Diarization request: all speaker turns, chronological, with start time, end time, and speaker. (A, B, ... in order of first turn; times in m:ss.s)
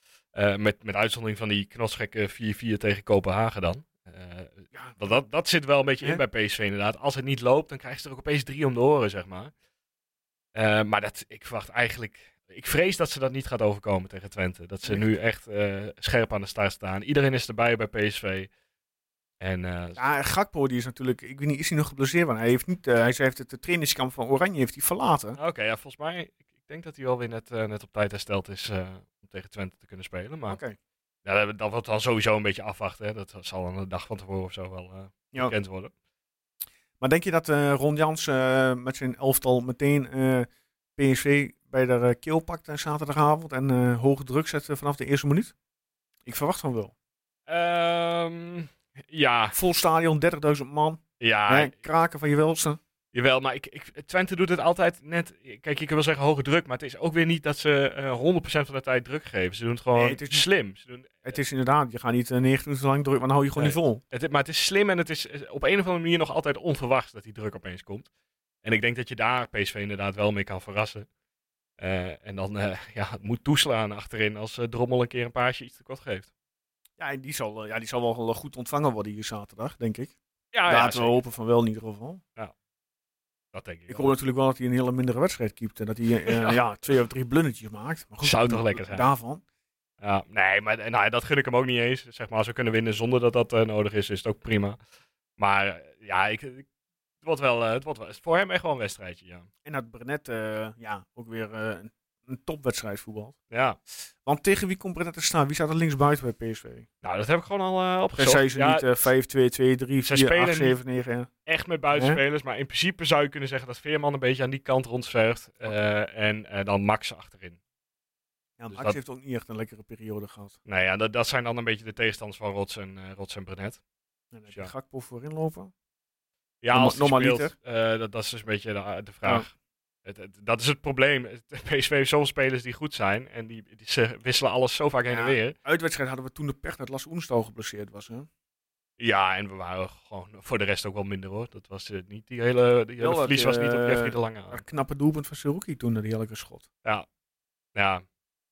0:00.3-0:09.5 A
0:04.7-0:05.2 B
0:10.6-0:18.5 A
0:19.4-0:20.0 A
0:20.0-0:25.4 B
0:25.4-0:30.6 A
0:30.5-0:30.8 B
0:31.2-0:35.9 A
0:37.0-0:45.5 B
0:46.3-0:46.9 B
0:47.5-0:49.6 A
0:49.5-0:52.8 B
0:51.2-0:51.8 A
0:53.1-1:01.4 A
1:00.0-1:00.5 B
1:01.3-1:04.0 B
1:03.6-1:08.1 A
1:08.6-1:11.1 A
1:11.8-1:16.3 A
1:17.0-1:20.1 B
1:20.5-1:21.2 A
1:20.7-1:22.2 B
1:23.5-1:24.1 A
1:23.9-1:29.4 B
1:26.3-1:26.6 A
1:28.2-1:29.1 A
1:30.0-1:34.8 A
1:35.4-1:36.7 A
1:37.2-1:39.5 A
1:39.6-1:43.3 B
1:43.5-1:43.8 A
1:44.2-1:46.9 B
1:47.0-1:48.9 A
1:48.2-1:51.3 B
1:50.1-1:50.8 A
1:51.5-1:57.6 A
1:51.9-1:52.2 B
1:58.6-2:00.6 B
1:58.7-1:59.0 A
2:00.7-2:03.8 A
2:04.3-2:05.7 B
2:06.6-2:09.5 A
2:06.7-2:07.5 B
2:10.0-2:15.6 A
2:15.1-2:18.3 B
2:19.0-2:24.6 A
2:23.0-2:26.7 B
2:27.8-2:28.0 A